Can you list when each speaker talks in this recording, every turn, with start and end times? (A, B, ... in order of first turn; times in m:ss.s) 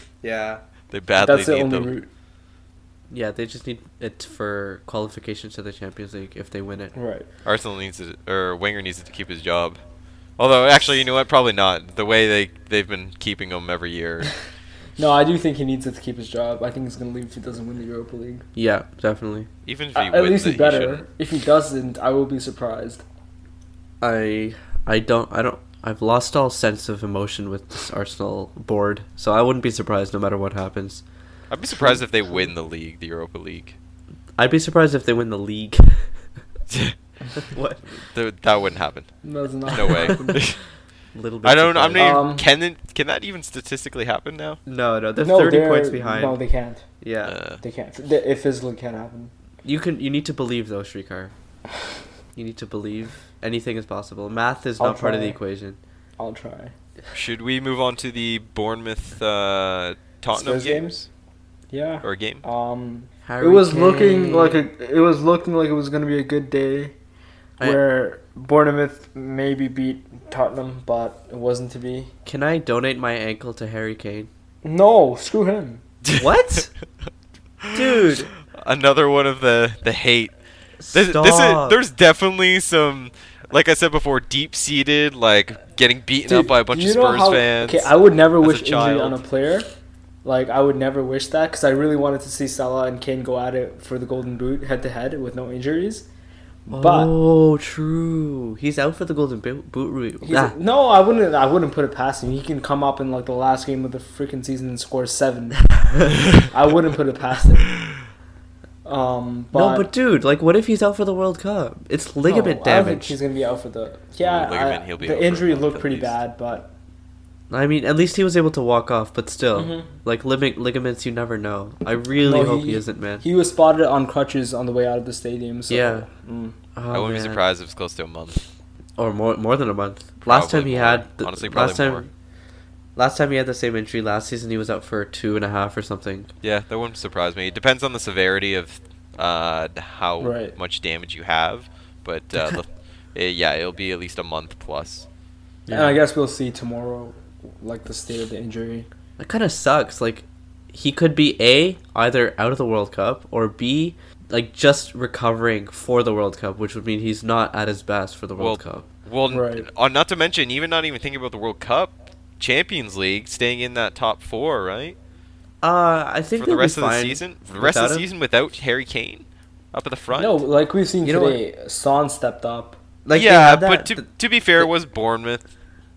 0:00.2-0:00.6 A
0:00.9-0:01.9 B
0:01.2-0:02.1 C
0:03.1-0:06.9 A
0:07.0-0:07.3 C
0:07.4-0:09.8 B
0:10.4-0:14.3 B
0:15.0-0:18.5 C
0:18.6-0:19.5 A
0:19.6-0:21.0 B
0:20.0-0:23.0 C
0:24.0-0:31.0 A
0:31.5-0:33.8 B
0:31.8-0:32.5 C
0:34.4-0:36.2 A
0:36.7-0:37.0 B
0:37.4-0:37.8 A
0:38.0-0:39.1 B
0:39.2-0:40.4 C
0:39.7-0:40.7 B
0:41.1-0:42.2 A
0:41.4-0:44.6 B
0:42.0-0:42.5 C
0:44.6-0:46.4 A
0:45.2-0:46.9 C
0:47.0-0:47.4 A
0:47.2-0:47.6 B
0:47.6-0:49.3 C
0:49.6-0:51.3 A
0:52.4-0:55.8 A
0:54.8-0:55.4 C
0:56.2-0:56.7 C
0:57.1-1:00.9 B
1:00.3-1:01.0 C
1:01.7-1:07.0 C
1:02.0-1:02.4 B
1:03.2-1:04.6 A
1:07.6-1:12.1 C
1:12.3-1:14.3 A
1:14.6-1:15.8 C
1:16.0-1:16.3 B
1:16.1-1:16.7 A
1:17.6-1:20.3 B
1:17.7-1:18.3 A
1:20.8-1:21.8 A
1:20.9-1:29.2 B
1:26.3-1:29.7 C
1:30.2-1:36.1 C
1:36.6-1:37.1 C
1:36.7-1:40.6 A
1:40.2-1:45.6 C
1:46.5-1:47.7 C
1:48.8-1:49.9 C
1:49.5-1:53.2 A
1:52.2-1:56.7 C
1:54.2-1:56.1 B
1:57.5-2:03.2 A
1:59.6-1:59.9 C
2:02.2-2:06.6 C
2:05.7-2:06.1 A
2:06.8-2:07.4 A
2:06.9-2:08.4 B
2:09.0-2:12.1 A
2:10.2-2:12.0 B
2:13.0-2:16.3 A
2:16.4-2:25.1 B
2:20.2-2:20.5 C
2:22.4-2:22.6 A
2:25.6-2:26.0 A
2:25.7-2:28.9 C
2:29.2-2:38.9 A
2:38.4-2:45.0 B
2:39.3-2:39.6 C
2:45.6-2:48.0 A
2:46.4-2:50.4 B
2:50.1-2:52.8 C
2:51.0-2:51.4 A
2:53.0-2:54.0 A
2:53.1-2:55.5 B